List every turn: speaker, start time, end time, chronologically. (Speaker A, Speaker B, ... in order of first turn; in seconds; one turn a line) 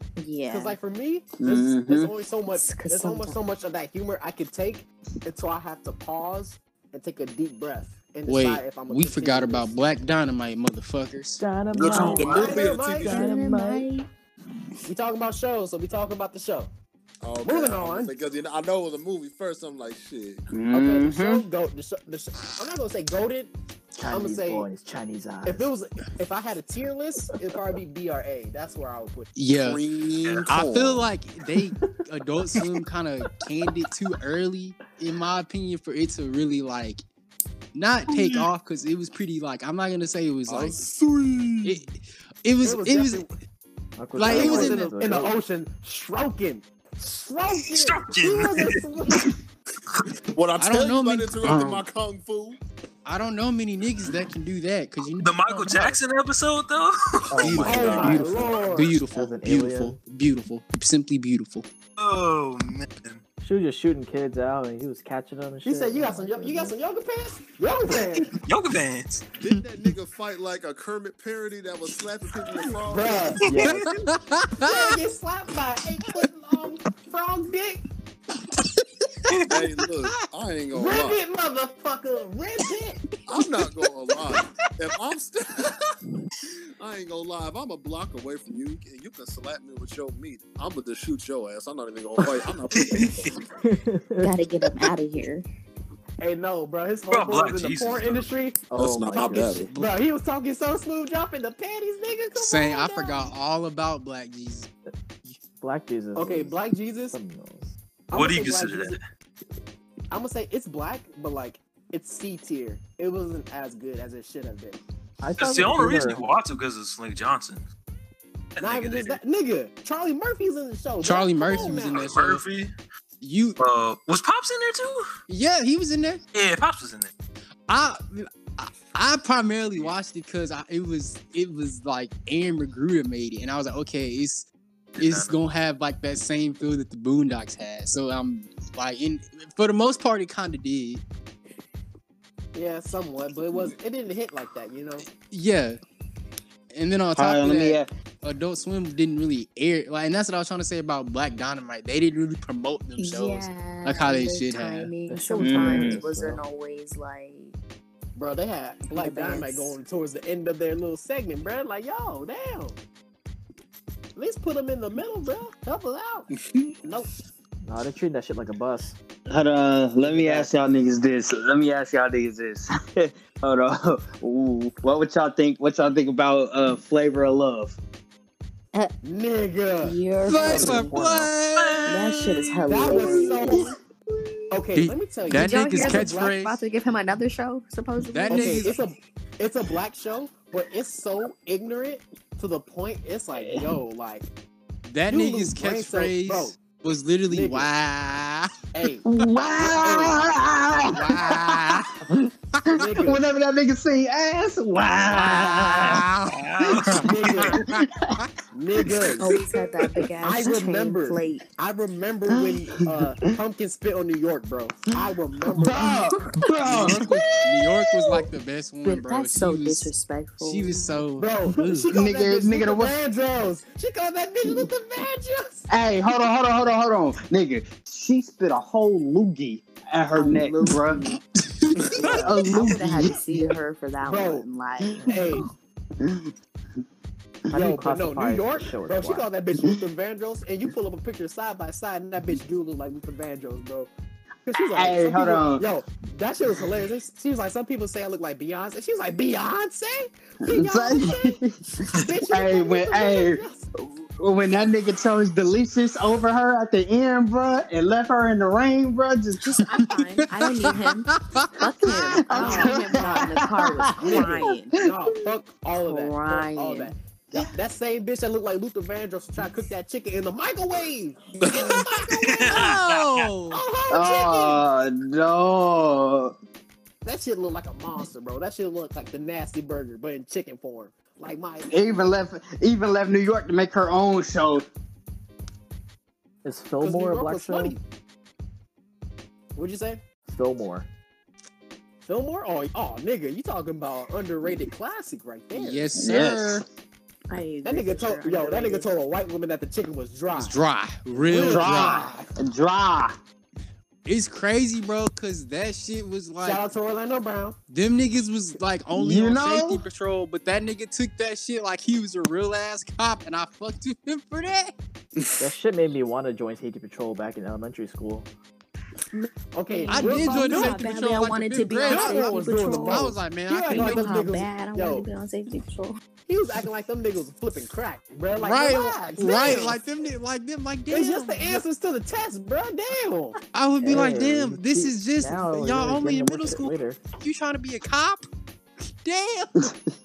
Speaker A: 0.2-0.8
Speaker B: 0.5-9.7
Speaker C: 1.4-2.1
Speaker A: 2.5-3.4
Speaker D: 8.2-11.4
Speaker E: 11.4-12.5
Speaker F: 11.7-13.4
Speaker A: 11.7-14.1
Speaker G: 11.8-12.6
Speaker B: 12.2-13.2
Speaker E: 13.0-13.8
Speaker B: 14.8-16.7
Speaker F: 17.2-20.4
Speaker B: 17.4-18.2
Speaker C: 20.5-21.4
Speaker B: 20.7-23.5
Speaker E: 23.9-25.7
Speaker B: 24.1-24.7
Speaker B: 25.4-29.3
Speaker D: 29.4-37.0
Speaker F: 29.6-31.1
Speaker G: 30.2-30.6
Speaker D: 37.7-40.8
Speaker C: 41.1-41.7
Speaker D: 41.6-43.3
Speaker B: 42.6-43.3
Speaker E: 44.0-45.4
Speaker D: 44.1-44.9
Speaker B: 44.2-49.3
Speaker G: 47.6-48.8
Speaker F: 50.3-52.6
Speaker D: 50.6-51.6
Speaker C: 51.4-51.8
Speaker D: 53.0-55.4
Speaker G: 55.1-58.0
Speaker E: 57.3-60.0
Speaker D: 57.4-61.7
Speaker B: 57.6-58.9
Speaker G: 62.0-63.2
Speaker E: 63.4-66.7
Speaker B: 65.6-68.3
Speaker G: 68.3-69.2
Speaker F: 69.4-73.8
Speaker B: 72.9-73.4
Speaker E: 73.4-73.8
Speaker D: 73.6-75.0
Speaker B: 74.6-77.8
Speaker G: 79.3-79.6
Speaker F: 79.5-81.2
Speaker B: 80.7-83.0
Speaker F: 83.3-85.8
Speaker F: 86.8-93.3
Speaker E: 92.2-92.5
Speaker G: 92.7-93.4
Speaker E: 93.6-94.3
Speaker A: 94.2-95.4
Speaker B: 96.2-103.3
Speaker G: 97.1-98.3
Speaker F: 98.7-99.7
Speaker D: 102.3-104.7
Speaker E: 105.6-107.7
Speaker B: 106.1-107.2
Speaker B: 108.1-109.0
Speaker G: 108.1-109.0
Speaker B: 110.1-114.8
Speaker E: 115.2-116.2
Speaker G: 115.4-117.6
Speaker G: 118.5-119.2
Speaker B: 118.6-122.0
Speaker D: 121.0-122.4
Speaker G: 121.4-122.7
Speaker D: 123.2-123.6
Speaker G: 123.6-125.0
Speaker D: 125.3-126.2
Speaker G: 126.3-127.1
Speaker D: 127.7-134.5
Speaker G: 135.0-135.3
Speaker D: 135.0-141.0
Speaker B: 142.5-145.1
Speaker D: 145.2-145.8
Speaker D: 146.7-154.9
Speaker C: 147.2-147.9
Speaker A: 153.0-157.6
Speaker E: 155.1-156.4
Speaker C: 155.4-156.0
Speaker B: 158.2-162.8
Speaker A: 158.9-159.8
Speaker B: 164.2-166.3
Speaker B: 166.8-167.1
Speaker E: 167.6-168.9
Speaker C: 169.3-177.8
Speaker E: 170.0-170.5
Speaker B: 179.0-179.9
Speaker A: 179.8-181.0
Speaker D: 180.3-182.9
Speaker E: 180.4-181.3
Speaker G: 181.6-182.0
Speaker A: 181.8-183.7
Speaker B: 182.7-183.8
Speaker C: 182.9-184.6
Speaker B: 184.5-186.3
Speaker D: 184.8-186.6
Speaker A: 185.3-188.6
Speaker D: 188.0-188.8
Speaker B: 188.3-194.3
Speaker C: 193.3-193.7
Speaker D: 194.8-198.5
Speaker B: 195.1-196.6
Speaker B: 197.3-197.7
Speaker B: 198.7-199.0
Speaker C: 199.0-206.0
Speaker B: 199.8-200.3
Speaker D: 200.9-201.9
Speaker D: 202.6-202.8
Speaker B: 202.7-203.2
Speaker D: 205.2-206.9
Speaker G: 206.6-207.1
Speaker C: 206.6-208.1
Speaker B: 206.9-207.6
Speaker D: 207.5-208.2
Speaker B: 208.5-209.6
Speaker A: 209.2-211.4
Speaker B: 210.2-216.1
Speaker C: 215.5-218.2
Speaker D: 216.6-221.9
Speaker A: 218.8-221.0
Speaker B: 221.2-225.6
Speaker C: 221.9-223.0
Speaker C: 225.7-231.1
Speaker C: 231.9-233.2
Speaker A: 232.0-235.1
Speaker B: 234.0-234.4
Speaker C: 235.0-235.4
Speaker B: 235.1-235.5
Speaker C: 236.0-236.3
Speaker E: 237.5-239.3
Speaker B: 237.5-243.9
Speaker B: 244.5-251.3
Speaker C: 244.5-245.7
Speaker C: 250.4-253.4
Speaker B: 251.9-253.6
Speaker C: 254.2-259.6
Speaker A: 259.4-264.7
Speaker D: 261.1-261.5
Speaker C: 261.8-264.4
Speaker B: 262.3-263.4
Speaker B: 263.9-272.7
Speaker A: 265.8-266.9
Speaker F: 271.4-271.8
Speaker G: 272.1-273.2
Speaker D: 272.5-273.6
Speaker B: 273.5-274.6
Speaker C: 273.9-276.3
Speaker B: 277.0-281.7
Speaker C: 281.7-284.6
Speaker E: 286.4-287.8
Speaker B: 286.8-287.8
Speaker B: 289.6-290.0
Speaker E: 290.2-290.9
Speaker B: 292.0-295.9
Speaker D: 295.5-296.6
Speaker C: 295.9-296.6
Speaker A: 297.3-298.9
Speaker B: 297.6-300.6
Speaker D: 300.3-302.0
Speaker B: 301.1-302.3
Speaker C: 301.3-303.1
Speaker D: 304.0-306.6
Speaker B: 306.4-307.6
Speaker D: 307.7-314.7
Speaker C: 308.9-309.8
Speaker E: 315.4-318.3
Speaker A: 319.1-323.1
Speaker B: 319.5-320.8
Speaker D: 319.9-324.1
Speaker B: 321.8-325.0
Speaker A: 323.7-326.0
Speaker B: 326.3-329.8
Speaker D: 328.4-331.6
Speaker B: 330.9-333.3
Speaker D: 333.5-338.2
Speaker E: 333.8-337.0
Speaker D: 339.0-339.7